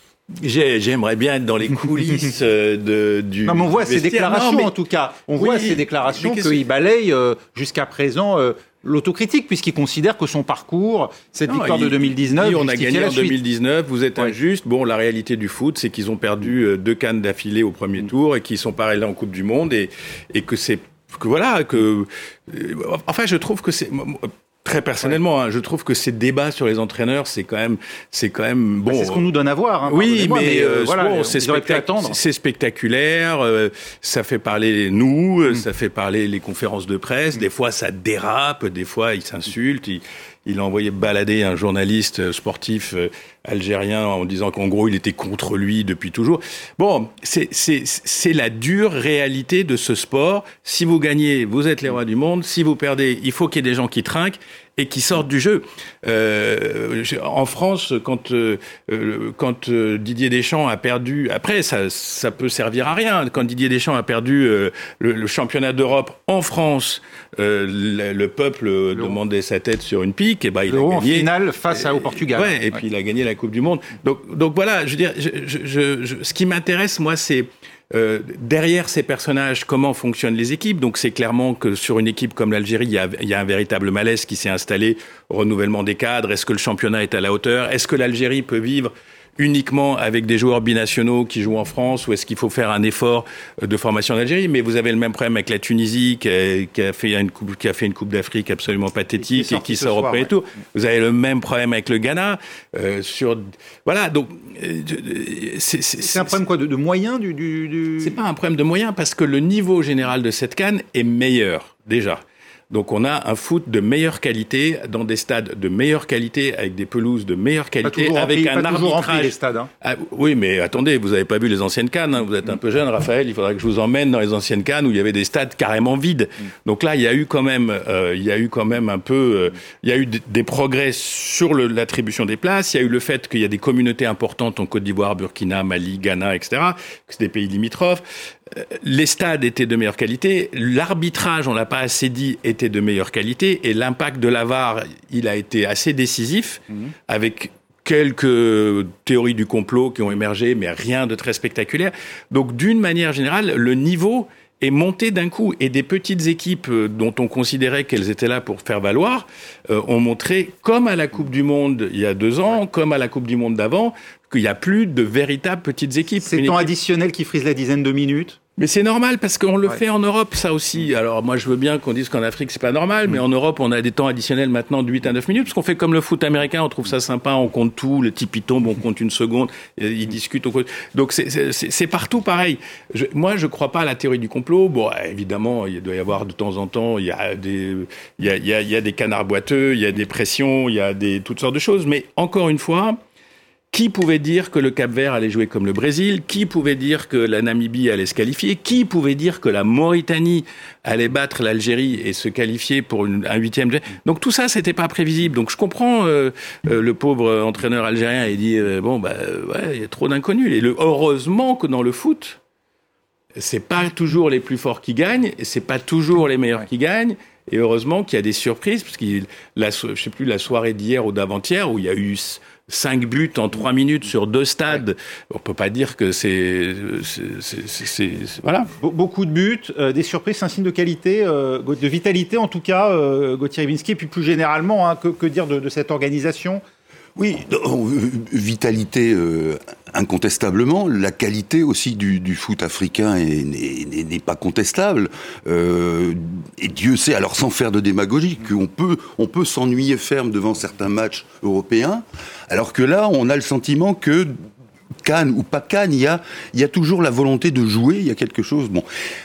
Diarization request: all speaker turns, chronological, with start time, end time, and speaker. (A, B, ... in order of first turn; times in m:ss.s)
0:00.4-0:04.7 A
0:03.5-0:13.4 B
0:05.4-0:06.6 A
0:11.5-0:29.2 A
0:28.9-0:32.2 B
0:29.9-1:46.3 A
1:10.7-1:12.8 B
1:39.2-1:40.3 B
1:46.0-1:48.2 B
1:48.0-2:46.7 A
1:57.8-1:59.7 B
2:46.2-2:48.4 B
2:48.6-3:13.0 A
3:13.7-3:32.4 A
3:33.4-3:48.7 A
3:48.8-3:56.6 B
3:57.2-4:14.4 C
4:15.0-4:18.9 C